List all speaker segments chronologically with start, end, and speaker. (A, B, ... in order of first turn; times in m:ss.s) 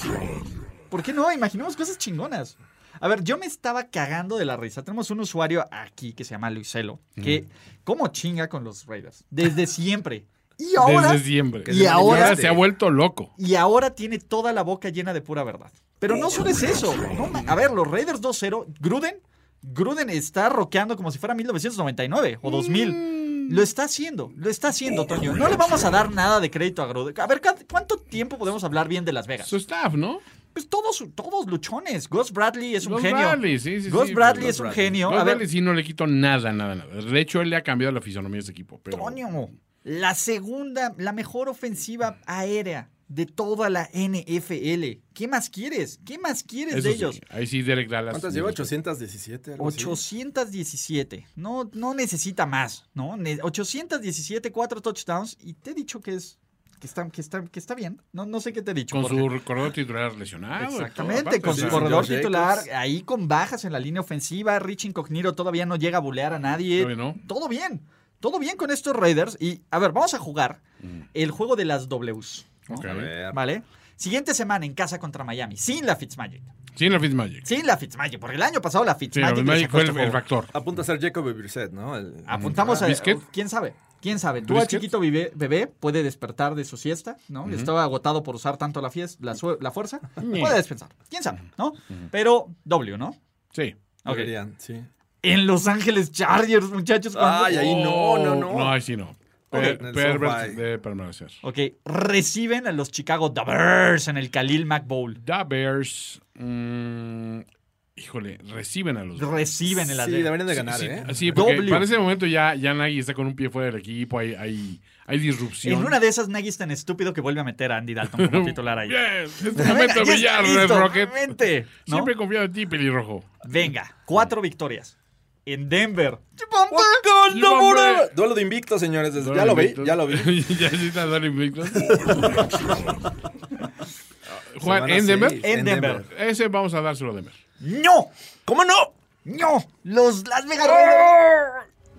0:00.9-0:12.4 A
0:10.8-0:13.3 B
0:11.6-0:12.7 C
0:13.4-0:29.5 A
0:22.4-0:23.7 B
0:29.4-0:30.2 B
0:30.5-0:35.4 A
0:32.8-0:39.2 B
0:34.3-0:35.0 C
0:38.9-0:47.2 A
0:46.7-0:48.7 B
0:48.1-0:50.0 C
0:49.6-0:59.3 A
0:58.9-1:02.1 B
1:00.6-1:10.6 A
1:01.4-1:02.7 C
1:06.8-1:07.2 B
1:11.1-1:16.5 A
1:12.7-1:13.1 B
1:12.8-1:13.4 C
1:16.8-1:17.5 B
1:17.4-1:20.2 A
1:19.1-1:20.5 B
1:20.5-1:22.9 C
1:22.3-1:33.2 A
1:22.3-1:23.2 B
1:24.4-1:24.9 B
1:27.4-1:27.7 B
1:30.2-1:30.6 B
1:34.0-1:34.3 A
1:34.0-1:34.9 C
1:35.2-1:37.6 A
1:37.1-1:38.8 C
1:37.5-1:41.4 B
1:39.5-1:40.6 C
1:41.4-1:45.2 A
1:45.2-1:47.4 B
1:48.0-1:49.5 B
1:49.2-1:51.9 A
1:49.9-1:51.7 C
1:51.0-1:56.0 B
1:55.6-2:02.1 A
1:58.1-2:03.4 B
2:03.4-2:04.9 A
2:05.4-2:07.0 A
2:06.7-2:10.4 C
2:07.3-2:08.1 B
2:09.2-2:12.5 B
2:11.8-2:12.9 C
2:14.3-2:15.4 B
2:14.6-2:16.1 C
2:15.4-2:16.0 A
2:16.0-2:17.4 B
2:17.6-2:18.1 A
2:18.4-2:18.9 C
2:19.2-2:21.2 A
2:20.6-2:21.6 C